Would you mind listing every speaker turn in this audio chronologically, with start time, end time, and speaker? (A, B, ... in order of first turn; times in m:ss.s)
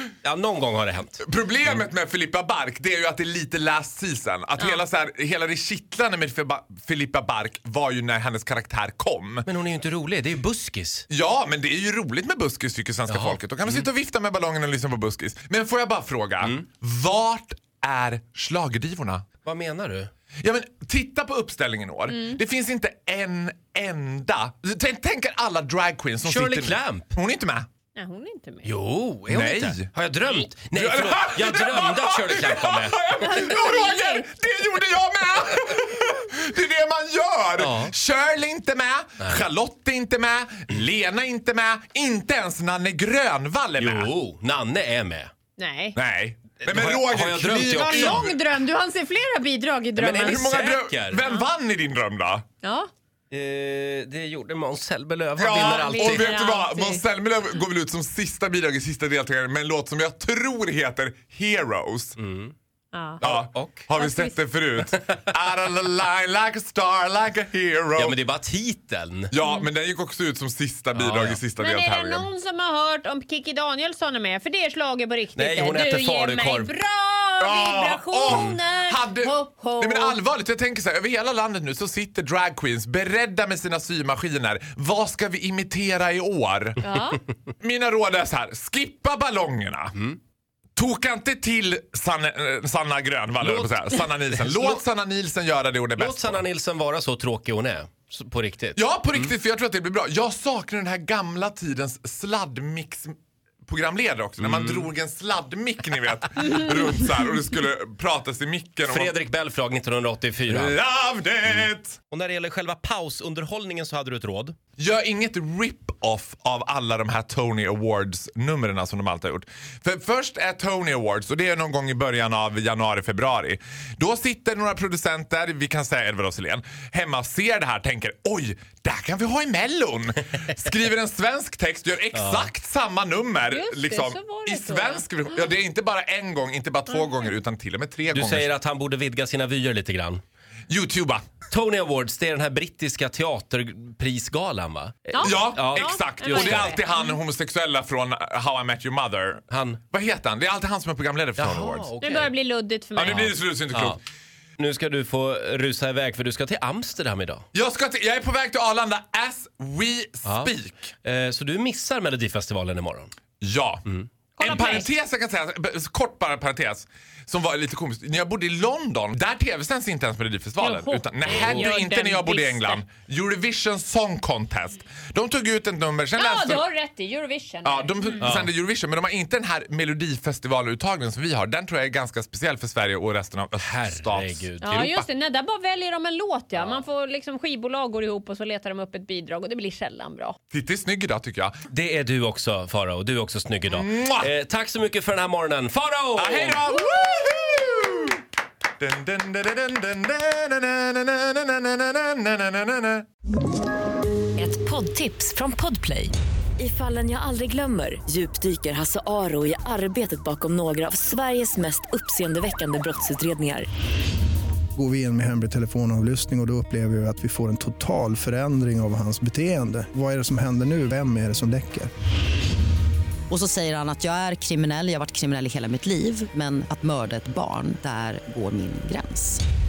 0:00.2-0:01.2 A
0:01.2-0:09.5 B
0:04.6-0:04.8 C
0:09.5-0:11.0 A
0:11.1-0:19.3 B
0:13.1-0:13.9 A
0:19.4-0:20.1 A
0:20.4-0:27.7 B
0:22.1-0:22.4 C
0:26.2-0:27.1 A
0:28.0-0:28.7 C
0:28.6-0:33.0 A
0:29.3-0:29.9 B
0:30.6-0:44.1 B
0:33.3-0:34.2 C
0:37.6-0:37.9 A
0:43.8-0:45.3 A
0:45.6-0:46.0 C
0:46.0-0:48.4 B
0:46.6-0:48.3 A
0:47.7-0:50.5 C
0:50.0-0:51.2 A
0:50.2-0:52.4 B
0:52.6-0:52.9 C
0:53.3-0:56.4 A
0:55.4-1:02.2 B
0:55.5-0:57.0 C
1:02.2-1:02.5 A
1:02.9-1:03.2 C
1:03.2-1:03.9 A
1:03.2-1:08.2 B
1:04.0-1:04.4 C
1:08.0-1:09.3 A
1:09.3-1:12.3 B
1:11.0-1:11.4 A
1:11.6-1:20.2 C
1:15.4-1:16.7 A
1:17.4-1:26.8 B
1:18.3-1:18.6 A
1:26.8-1:27.2 C
1:27.6-1:30.0 B
1:30.8-1:36.4 B
1:33.4-1:34.8 A
1:36.0-1:38.8 A
1:38.8-1:49.1 B
1:44.4-1:44.9 A
1:48.9-1:50.8 A
1:50.5-1:52.0 B
1:52.1-1:54.6 A
1:54.8-2:18.5 B
2:12.1-2:12.5 A
2:13.5-2:15.5 C
2:18.1-2:20.2 A
2:20.7-2:21.3 B
2:21.5-2:26.8 A
2:25.1-2:27.2 C
2:25.2-2:31.9 B
2:29.5-2:29.8 A
2:31.4-2:32.3 A
2:32.0-2:33.3 C
2:33.0-2:34.0 B
2:33.1-2:34.0 A
2:34.6-2:37.4 A
2:37.5-2:40.9 B
2:40.2-2:40.5 A
2:41.0-2:43.1 A
2:43.4-2:43.8 B
2:44.4-2:44.9 C
2:44.4-2:56.7 B
2:50.6-2:52.8 C
2:51.3-2:51.7 A
2:56.2-2:58.3 C
2:57.6-3:04.4 B
2:58.2-2:58.5 A
3:03.6-3:05.0 A
3:04.6-3:10.4 C
3:06.6-3:06.8 A
3:10.5-3:11.6 B
3:11.7-3:16.6 A
3:13.7-3:14.3 B
3:16.2-3:18.2 B
3:18.8-3:23.1 B
3:24.4-3:33.7 D
3:34.8-3:41.9 E
3:43.3-3:49.4 F